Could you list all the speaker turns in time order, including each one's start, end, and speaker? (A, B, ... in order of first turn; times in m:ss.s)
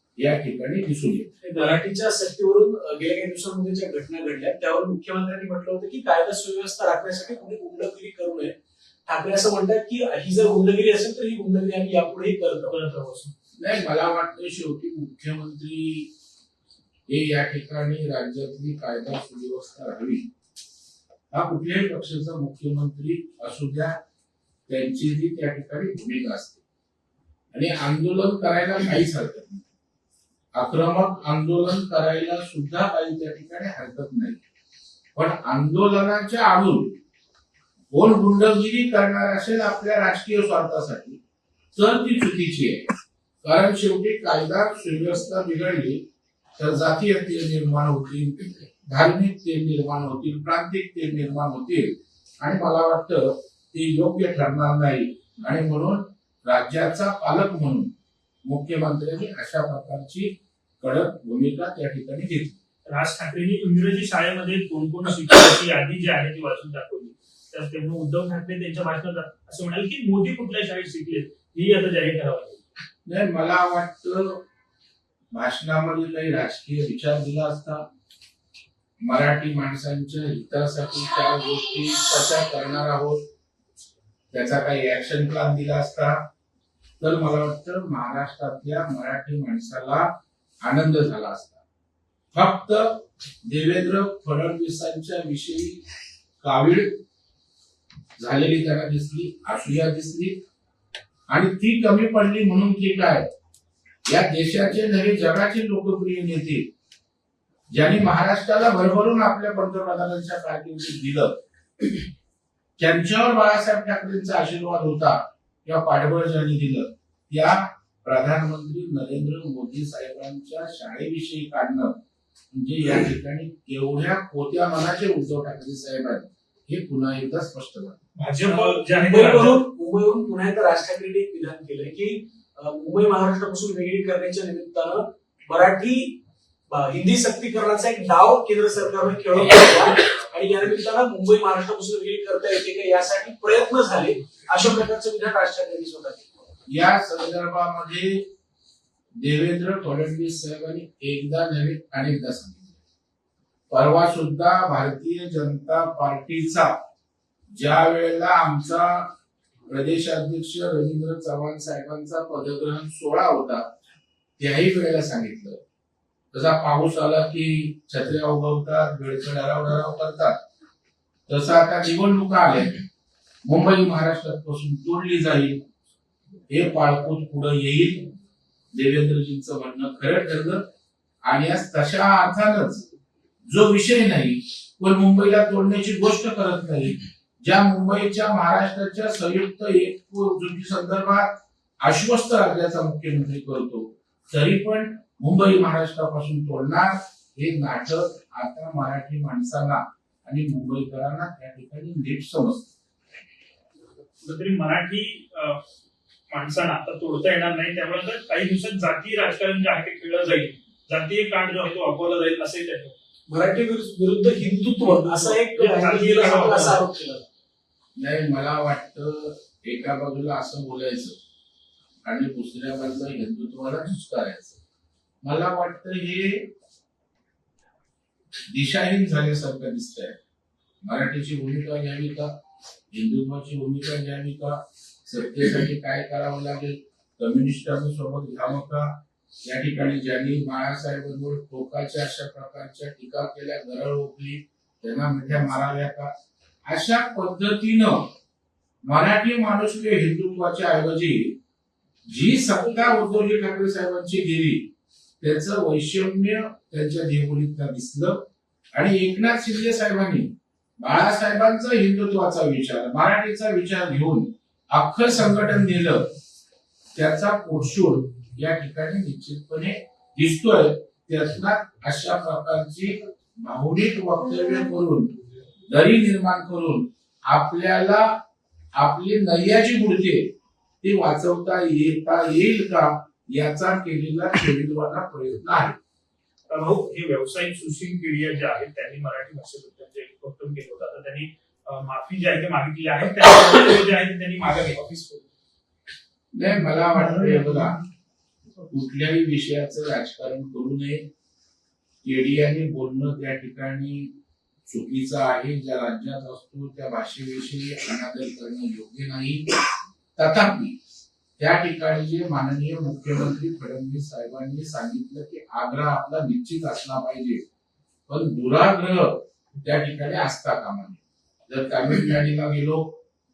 0:00.2-0:01.3 A
0:01.4-0:08.5 B
0:09.1-0:12.7 B
0:12.6-0:13.3 C
0:13.6-0:16.1 A
0:17.1-0:20.3 A
0:21.3-0:23.9 A
0:24.7-0:26.6 A
0:27.5-0:29.7 A
0:30.5-0:34.4 A
0:35.1-0:37.0 A
0:37.9-0:41.2 A
0:41.8-0:42.8 A
0:43.4-0:46.0 A
0:46.6-0:57.9 A
0:58.4-1:02.6 A
1:02.9-1:12.6 C
1:13.0-1:14.4 A
1:15.3-1:17.8 A
1:19.0-1:23.2 A
1:24.3-1:26.2 A
1:27.0-1:30.1 A
1:30.6-1:31.6 A
1:32.3-1:35.8 A
1:36.4-1:36.9 A
1:38.2-1:40.3 A
1:41.3-1:43.2 A
1:44.1-1:46.6 A
1:47.7-1:51.3 A
1:52.8-2:01.9 A
2:02.5-2:08.0 A
2:08.2-2:09.6 C
2:08.4-2:26.3 B
2:26.7-2:28.2 A
2:29.2-2:32.8 A
2:33.7-2:36.7 A
2:37.5-2:39.1 A
2:39.7-2:43.7 A
2:44.4-2:45.6 A
2:46.3-2:50.4 A
2:51.3-2:52.8 A
2:53.4-2:55.6 A
2:56.5-2:58.1 A
2:58.7-3:00.6 A
3:01.2-3:02.9 A
3:03.5-3:22.7 A
3:24.2-3:25.6 C
3:26.3-3:33.0 C
3:33.3-3:37.2 B
3:34.8-3:36.8 C
3:38.0-3:41.2 A
3:42.0-3:44.6 A
3:45.2-3:46.5 A
3:48.5-3:50.2 A
3:50.8-3:52.3 A
3:52.9-3:58.9 A
3:59.4-4:06.1 A
4:06.7-4:08.1 A
4:08.8-4:11.4 A
4:12.1-4:14.7 A
4:15.2-4:18.2 A
4:18.7-4:26.1 A
4:27.0-4:35.1 A
4:35.7-4:38.2 A
4:38.7-4:45.8 A
4:46.5-4:54.8 C
4:54.8-4:55.2 B
4:56.3-4:57.8 A
4:58.7-5:01.0 A
5:02.0-5:04.1 A
5:04.7-5:09.4 A
5:10.2-5:10.8 A
5:11.4-5:17.4 A
5:18.1-5:23.0 A